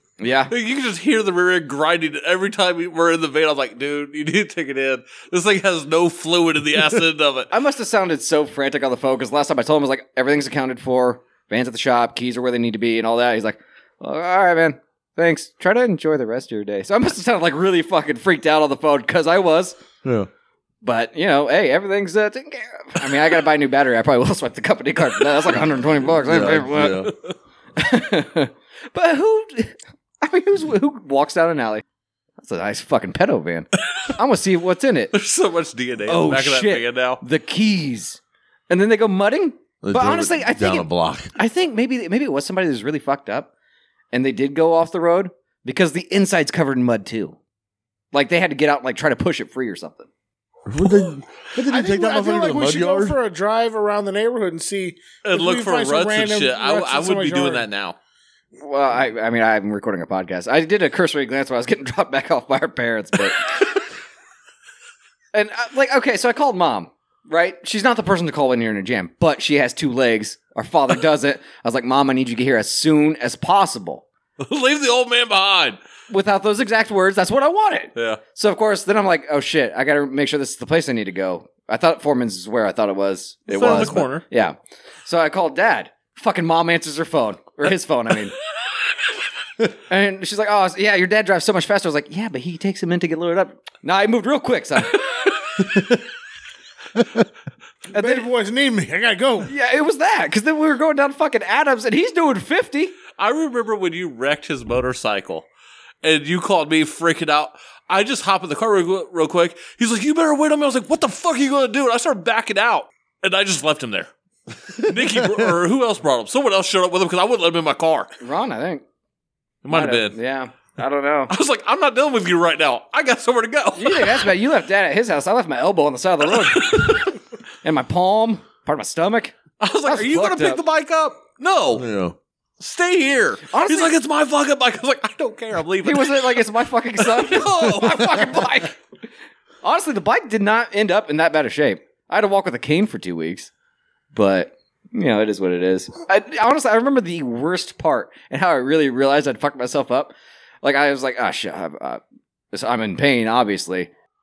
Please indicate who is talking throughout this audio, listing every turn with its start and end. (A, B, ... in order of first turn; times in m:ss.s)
0:00.2-0:00.5 A
0:00.5-0:07.5 B
0:07.5-0:19.8 A
0:20.0-0:20.3 C
0:20.8-0:27.1 A
0:26.1-0:27.1 C
0:27.8-0:31.8 A
0:32.4-0:35.1 A
0:35.1-0:37.2 B
0:36.0-0:43.5 A
0:39.8-0:41.3 C
0:44.1-0:47.4 A
0:48.1-0:50.1 A
0:50.6-0:53.2 C
0:51.7-0:57.6 D
0:55.2-0:58.0 B
0:58.6-1:03.6 A
1:05.3-1:14.0 A
1:14.4-1:15.8 B
1:16.1-1:28.3 A
1:23.5-1:24.2 B
1:29.9-1:35.0 A
1:35.6-1:36.0 C
1:37.9-1:38.3 A
1:37.9-1:39.5 D
1:39.4-1:43.0 A
1:43.2-1:45.4 B
1:46.0-1:54.1 B
1:54.7-1:58.1 B
1:54.8-1:55.5 C
1:58.2-1:58.8 A
1:59.6-2:00.2 B
1:59.7-2:01.3 A
2:01.3-2:04.3 B
2:03.8-2:07.1 A
2:06.4-2:07.1 B
2:07.6-2:10.6 A
2:09.6-2:11.8 B
2:11.7-2:12.2 C
2:12.6-2:16.4 B
2:13.5-2:13.9 A
2:15.8-2:18.8 A
2:17.0-2:18.5 B
2:19.6-2:23.5 A
2:24.1-2:32.0 A
2:32.5-2:33.9 A